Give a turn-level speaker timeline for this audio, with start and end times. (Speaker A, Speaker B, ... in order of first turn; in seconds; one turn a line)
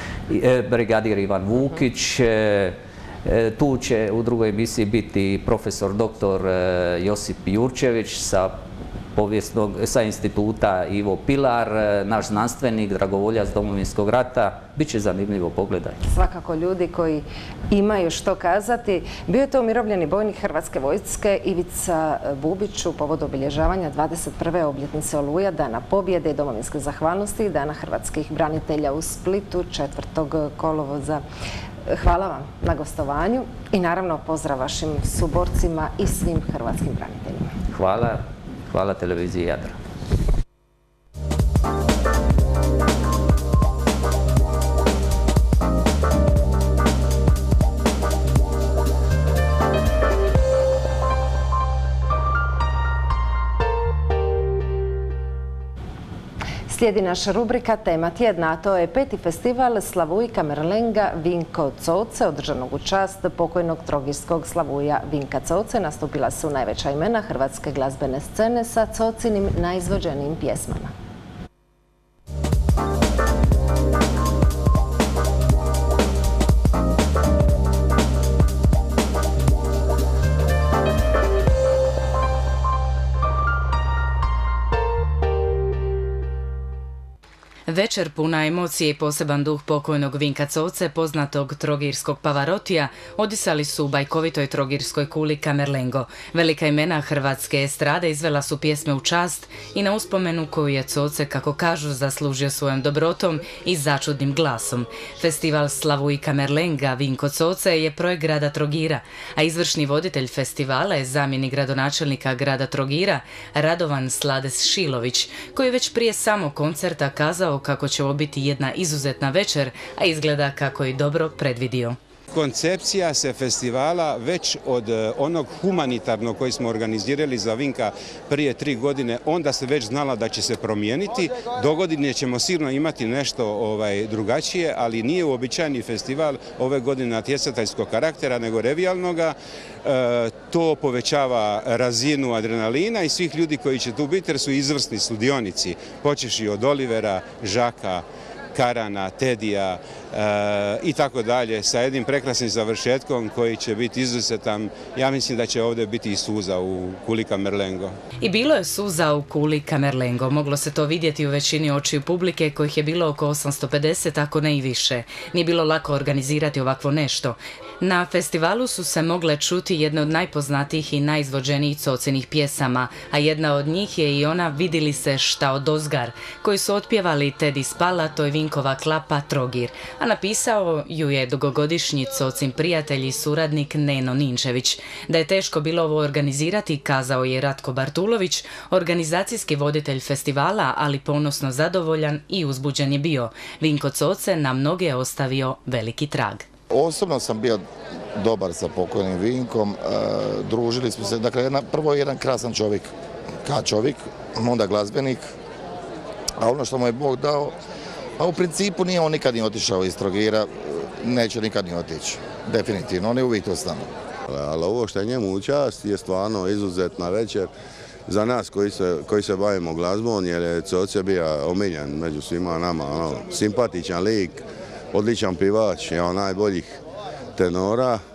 Speaker A: 0.3-8.6
Speaker A: 9.2-16.0
Speaker B: 16.1-31.2
Speaker B: 31.9-37.5
Speaker A: 37.7-39.8
Speaker B: 56.7-70.9
Speaker C: 87.7-122.0
Speaker D: 122.3-157.9
Speaker C: 158.2-196.5
Speaker E: 196.7-197.7
Speaker E: 198.2-202.9
Speaker E: 203.4-205.3
Speaker E: 206.4-207.6
Speaker E: 208.2-213.9
Speaker F: 214.3-217.5
Speaker F: 218.1-226.8
Speaker F: 227.4-228.0